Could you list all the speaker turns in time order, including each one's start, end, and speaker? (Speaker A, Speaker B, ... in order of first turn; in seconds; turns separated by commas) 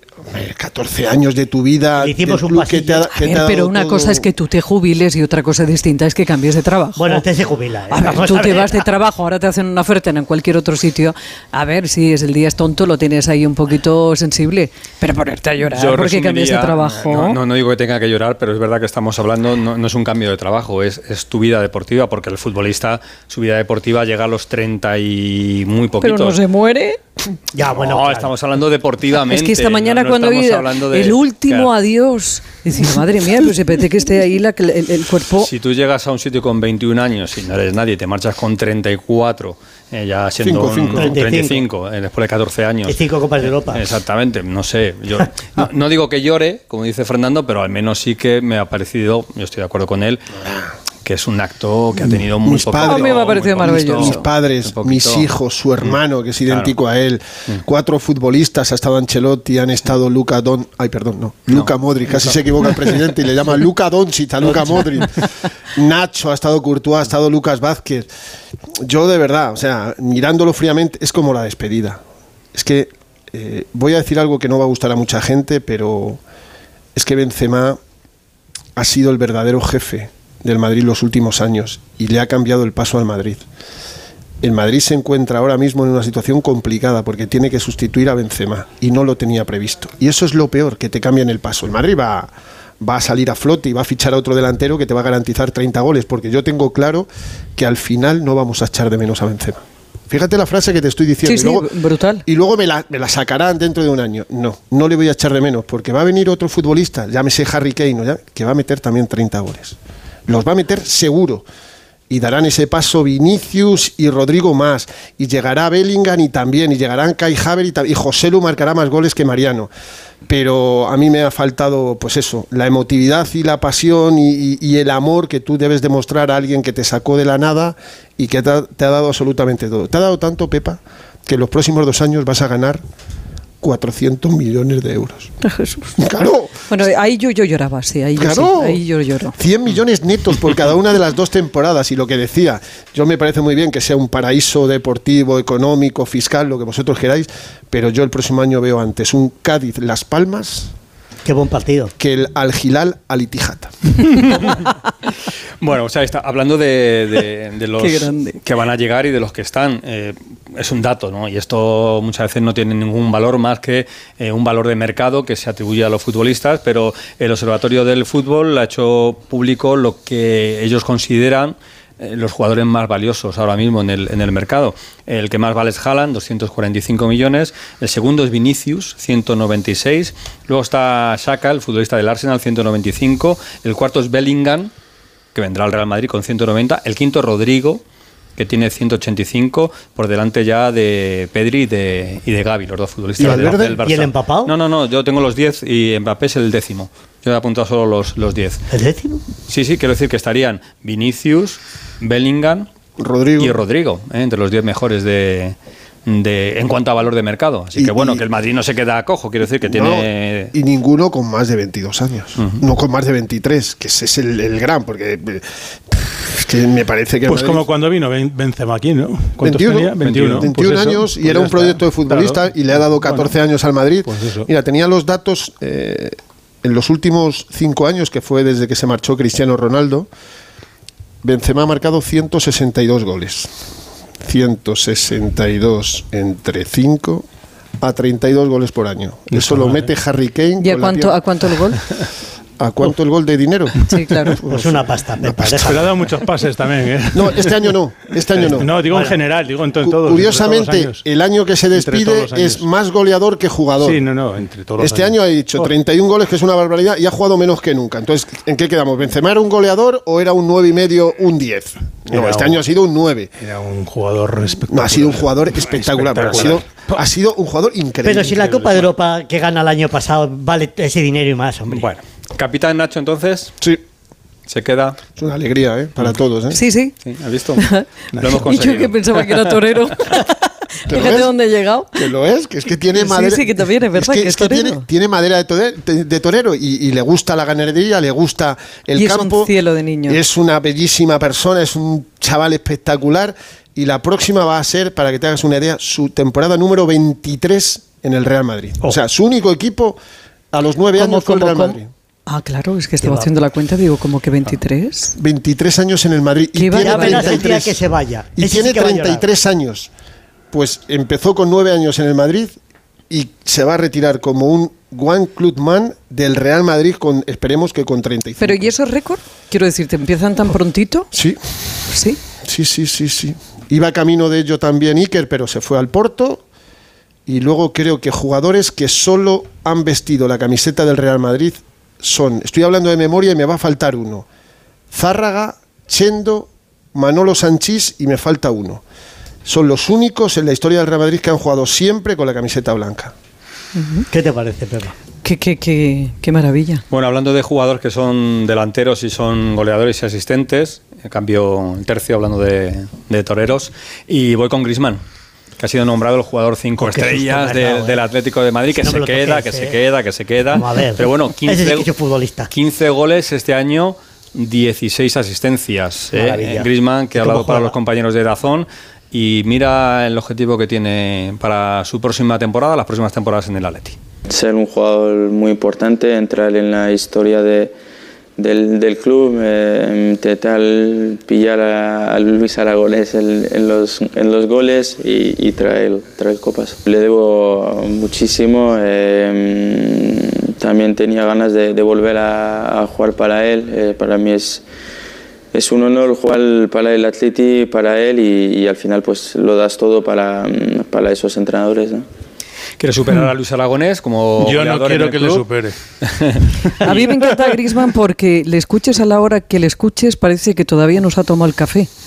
Speaker A: 0.3-4.3, Speaker B: 2.0-3.1, Speaker C: 3.1-7.2, Speaker B: 7.0-8.8, Speaker C: 7.9-17.4, Speaker D: 15.7-26.4, Speaker C: 26.0-27.0, Speaker B: 27.5-28.3, Speaker D: 27.7-31.7, Speaker C: 29.1-35.5, Speaker D: 35.4-43.0, Speaker A: 40.4-41.2, Speaker B: 41.0-41.6, Speaker B: 42.9-43.8, Speaker D: 43.7-50.2, Speaker D: 51.0-55.3, Speaker A: 52.4-65.2, Speaker C: 52.8-54.2, Speaker D: 55.8-56.7, Speaker A: 65.7-68.1, Speaker A: 68.8-72.0, Speaker A: 72.5-76.2, Speaker A: 77.0-77.8, Speaker A: 78.8-83.5, Speaker A: 84.4-101.7, Speaker C: 101.2-102.2, Speaker A: 102.3-109.8, Speaker A: 110.3-111.4, Speaker A: 112.1-119.7, Speaker A: 120.3-132.8, Speaker A: 133.6-135.3, Speaker C: 135.4-135.9, Speaker A: 136.0-136.7, Speaker C: 136.7-139.3, Speaker A: 138.2-138.8, Speaker A: 139.3-150.7, Speaker B: 151.2-151.9, Speaker A: 152.0-153.9, Speaker D: 154.2-154.6, Speaker D: 155.6-184.7, Speaker C: 157.8-158.4, Speaker D: 185.3-187.8, Speaker D: 188.4-198.6, Speaker A: 193.2-193.8, Speaker B: 193.2-194.5, Speaker B: 198.7-199.2, Speaker D: 199.5-202.7, Speaker A: 203.0-203.6, Speaker D: 203.4-205.6, Speaker D: 206.1-210.5, Speaker A: 207.8-208.2, Speaker A: 209.6-217.7, Speaker E: 217.2-223.3, Speaker A: 219.4-230.1, Speaker D: 220.0-220.5, Speaker E: 224.1-224.5, Speaker A: 231.2-233.5, Speaker A: 234.2-237.3, Speaker A: 237.8-241.2, Speaker E: 239.3-239.9, Speaker C: 240.6-241.8, Speaker A: 242.6-245.7, Speaker C: 243.9-244.4, Speaker B: 244.4-245.9, Speaker E: 245.7-247.7, Speaker A: 247.1-248.8, Speaker E: 248.3-251.1, Speaker B: 248.9-249.2, Speaker A: 249.8-254.0, Speaker E: 251.7-252.7, Speaker E: 253.8-255.7, Speaker A: 254.8-263.3, Speaker E: 262.1-262.6, Speaker E: 263.4-266.9, Speaker A: 264.7-268.4, Speaker B: 268.0-271.9, Speaker E: 268.3-268.9, Speaker D: 271.7-273.5, Speaker D: 274.5-275.0, Speaker A: 275.2-276.6, Speaker C: 276.5-277.0, Speaker D: 277.0-279.6, Speaker C: 277.6-282.1, Speaker E: 278.1-278.6, Speaker A: 280.9-281.4, Speaker A: 281.9-289.5, Speaker C: 282.9-284.8, Speaker C: 288.9-290.2, Speaker A: 290.1-300.0, Speaker A: 300.5-301.9, Speaker C: 301.0-305.1, Speaker B: 303.0-303.4, Speaker A: 305.2-307.8, Speaker C: 306.6-307.6, Speaker B: 306.8-309.3, Speaker A: 308.4-309.9, Speaker A: 310.5-312.6, Speaker A: 313.1-318.7, Speaker C: 318.4-321.1, Speaker A: 321.1-321.6, Speaker C: 321.9-322.2, Speaker A: 322.4-326.4, Speaker A: 327.3-334.3, Speaker A: 334.9-338.8, Speaker A: 339.5-343.1, Speaker C: 343.8-344.1, Speaker B: 344.1-344.9, Speaker C: 345.2-346.8, Speaker D: 346.9-355.0, Speaker D: 355.6-361.9, Speaker B: 356.8-358.0, Speaker B: 358.7-359.8, Speaker B: 360.5-362.5, Speaker D: 362.5-374.0, Speaker B: 366.1-367.8, Speaker F: 374.3-377.7, Speaker F: 378.4-394.6, Speaker F: 395.5-402.1, Speaker D: 402.8-405.5, Speaker E: 404.4-405.8, Speaker D: 406.1-406.5, Speaker E: 406.7-407.3, Speaker C: 406.8-411.9